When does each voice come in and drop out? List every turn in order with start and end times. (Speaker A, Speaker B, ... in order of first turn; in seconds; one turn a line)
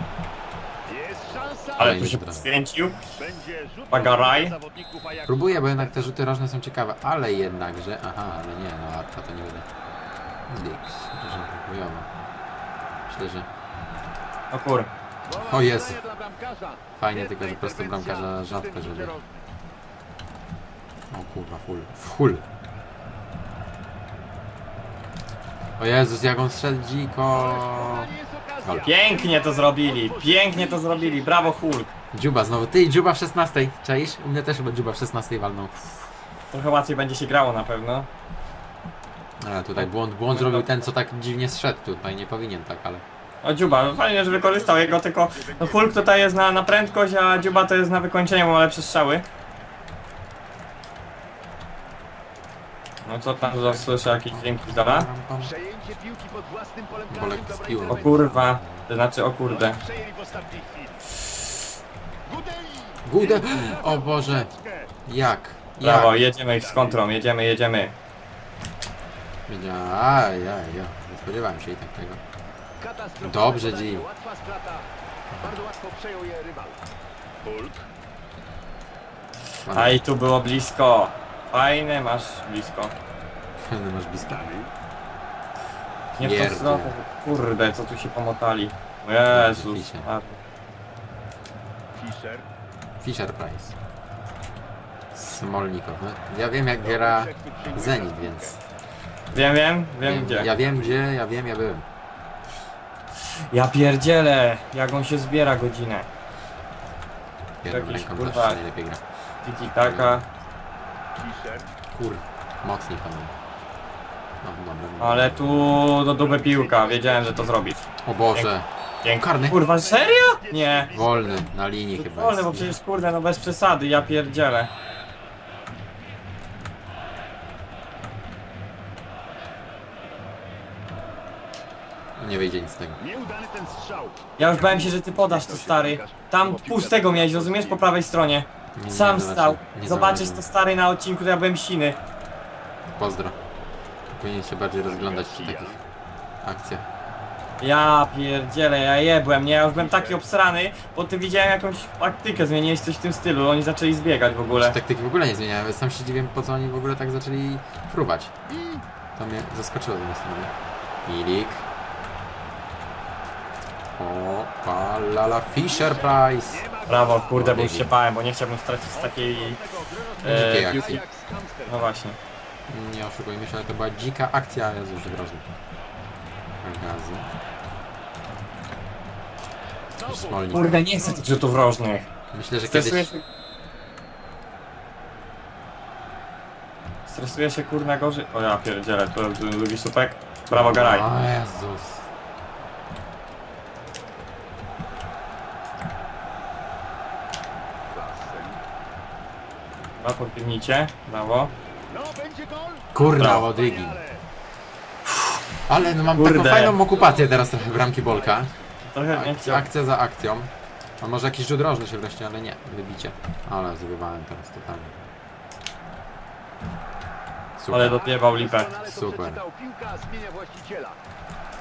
Speaker A: 0.8-2.0
Speaker B: 1.8-3.0
Speaker C: 1.8-2.5
Speaker A: 3.1-6.0
Speaker B: 3.9-4.5
Speaker C: 5.2-9.7
Speaker C: 10.5-12.1
Speaker C: 13.1-13.5
Speaker B: 14.5-14.9
Speaker A: 15.2-19.4
Speaker C: 15.3-16.0
Speaker C: 17.0-19.1
Speaker C: 21.1-22.4
Speaker C: 25.8-28.1
Speaker A: 27.3-31.6
Speaker C: 28.6-28.9
Speaker B: 28.8-31.9
Speaker C: 32.1-35.9
Speaker B: 36.5-38.1
Speaker C: 39.4-43.0
Speaker B: 39.8-40.9
Speaker B: 43.4-49.2
Speaker A: 44.2-47.8
Speaker B: 53.0-55.1
Speaker A: 53.4-54.0
Speaker C: 54.1-55.5
Speaker A: 55.4-58.3
Speaker C: 57.1-58.9
Speaker B: 57.9-59.8
Speaker A: 59.5-61.0
Speaker A: 62.2-64.9
Speaker C: 63.0-64.5
Speaker C: 65.0-66.3
Speaker B: 65.8-67.9
Speaker A: 66.5-67.0
Speaker C: 69.5-72.2
Speaker A: 72.8-74.9
Speaker C: 73.2-74.0
Speaker C: 75.3-75.6
Speaker A: 75.4-76.8
Speaker A: 77.4-77.9
Speaker C: 79.6-80.0
Speaker B: 79.7-82.9
Speaker C: 83.6-84.5
Speaker A: 84.2-84.7
Speaker C: 86.1-86.9
Speaker B: 86.2-90.4
Speaker C: 89.3-90.1
Speaker A: 91.9-92.5
Speaker C: 93.0-93.8
Speaker C: 95.1-98.6
Speaker A: 96.8-98.6
Speaker B: 99.3-100.5
Speaker C: 100.0-101.8
Speaker B: 103.5-106.1
Speaker C: 107.6-109.0
Speaker B: 107.7-108.6
Speaker B: 109.4-110.2
Speaker C: 109.6-110.2
Speaker A: 111.2-111.7
Speaker C: 111.9-113.3
Speaker C: 114.4-115.7
Speaker B: 115.0-117.8
Speaker A: 116.1-117.6
Speaker C: 118.0-119.6
Speaker B: 119.0-120.9
Speaker A: 119.4-121.5
Speaker C: 120.9-122.8
Speaker B: 122.0-124.7
Speaker C: 132.2-133.0
Speaker A: 133.0-138.0
Speaker B: 134.4-142.0
Speaker C: 138.8-140.5
Speaker C: 142.9-143.4
Speaker C: 144.1-145.8
Speaker A: 144.8-145.8
Speaker C: 146.4-146.8
Speaker B: 147.6-154.8
Speaker A: 149.7-150.2
Speaker C: 154.5-158.3
Speaker A: 158.5-158.8
Speaker C: 159.2-160.5
Speaker C: 161.1-161.7
Speaker C: 163.9-166.7
Speaker A: 165.7-167.4
Speaker B: 166.9-169.6
Speaker C: 167.2-167.9
Speaker A: 168.9-171.8
Speaker B: 170.2-171.0
Speaker C: 170.2-171.0
Speaker B: 171.7-172.2
Speaker C: 172.7-175.5
Speaker C: 176.6-177.3
Speaker A: 179.9-181.3
Speaker C: 180.1-180.8
Speaker B: 180.5-182.1
Speaker C: 182.3-183.1
Speaker B: 182.7-183.2
Speaker B: 187.1-191.1
Speaker C: 190.5-192.1
Speaker A: 197.9-198.6
Speaker B: 200.0-201.5
Speaker A: 201.9-204.2
Speaker C: 202.9-204.0
Speaker B: 203.1-203.4
Speaker C: 205.7-208.5
Speaker B: 206.1-206.8
Speaker A: 206.8-208.7
Speaker B: 208.8-209.7
Speaker C: 209.1-215.0
Speaker C: 217.6-218.0
Speaker B: 217.7-218.7
Speaker A: 217.9-221.0
Speaker C: 218.8-219.4